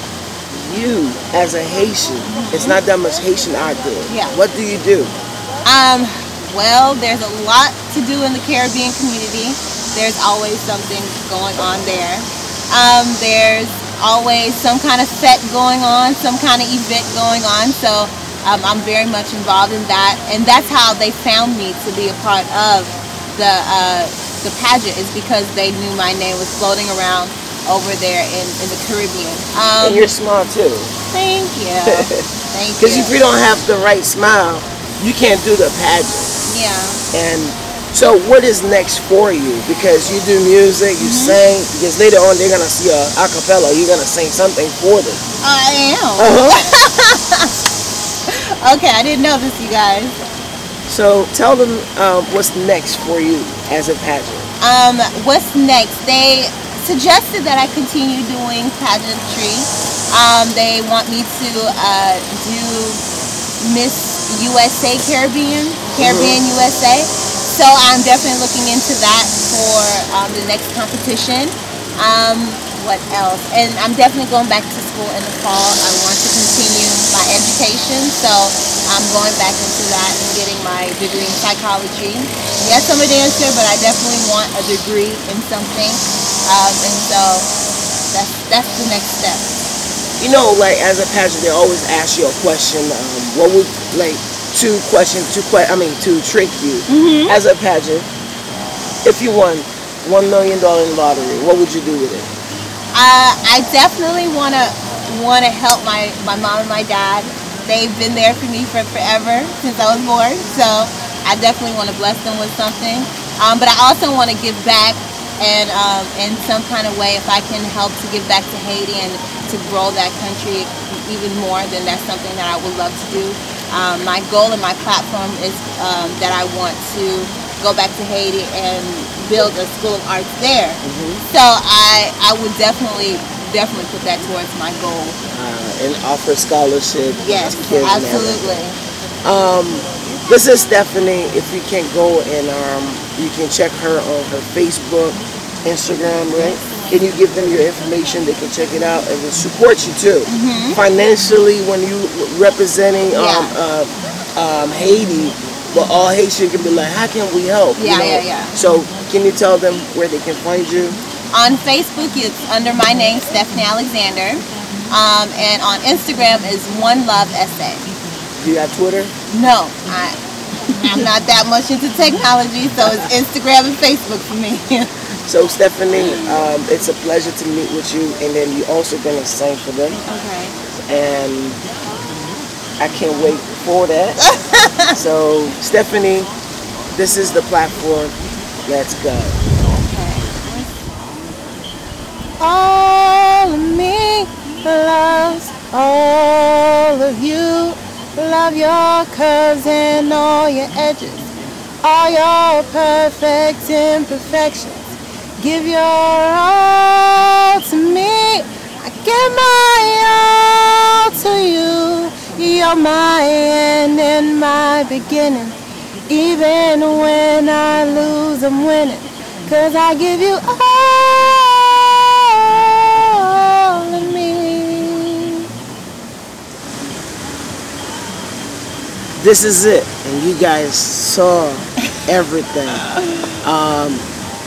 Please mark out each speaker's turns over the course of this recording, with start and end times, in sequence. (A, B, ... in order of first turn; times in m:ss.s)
0:00.5-0:05.1 A
0:02.3-0:02.8 B
0:04.1-0:04.4 B
0:05.6-0:30.1 B
0:29.8-0:30.9 A
0:31.1-0:33.2 B
0:31.9-0:32.2 A
0:32.8-0:36.3 A
0:36.4-0:37.0 B
0:37.1-0:45.2 A
0:41.0-0:41.4 B
0:45.4-0:47.5 B
0:46.2-0:46.7 A
0:48.3-0:50.2 B
0:50.9-0:54.5 A
0:54.6-1:03.0 B
1:03.6-1:27.5 B
1:05.9-1:06.4 A
1:28.1-1:29.5 B
1:30.2-1:38.1 A
1:36.9-1:37.4 B
1:39.0-1:42.3 A
1:42.9-2:15.2 B
2:10.8-2:11.2 A
2:15.3-2:18.6 A
2:17.2-2:18.8 B
2:19.2-2:41.0 A
2:30.2-2:30.8 B
2:33.1-2:33.5 B
2:37.8-2:38.6 B
2:41.3-2:47.9 B
2:48.4-2:49.1 A
2:49.3-2:54.9 B
2:55.3-3:00.0 A
2:55.9-2:56.4 B
3:00.0-3:00.6 B
3:00.7-3:01.6 A
3:02.8-3:04.3 A
3:04.2-3:04.9 B
3:04.9-3:06.3 A
3:06.9-3:08.1 A
3:08.6-3:09.4 A
3:09.7-3:10.7 B
3:12.4-3:21.3 B
3:21.8-3:35.5 B
3:36.1-3:45.4 B
3:49.2-3:52.9 A
3:52.8-3:53.3 B
3:53.4-3:54.1 A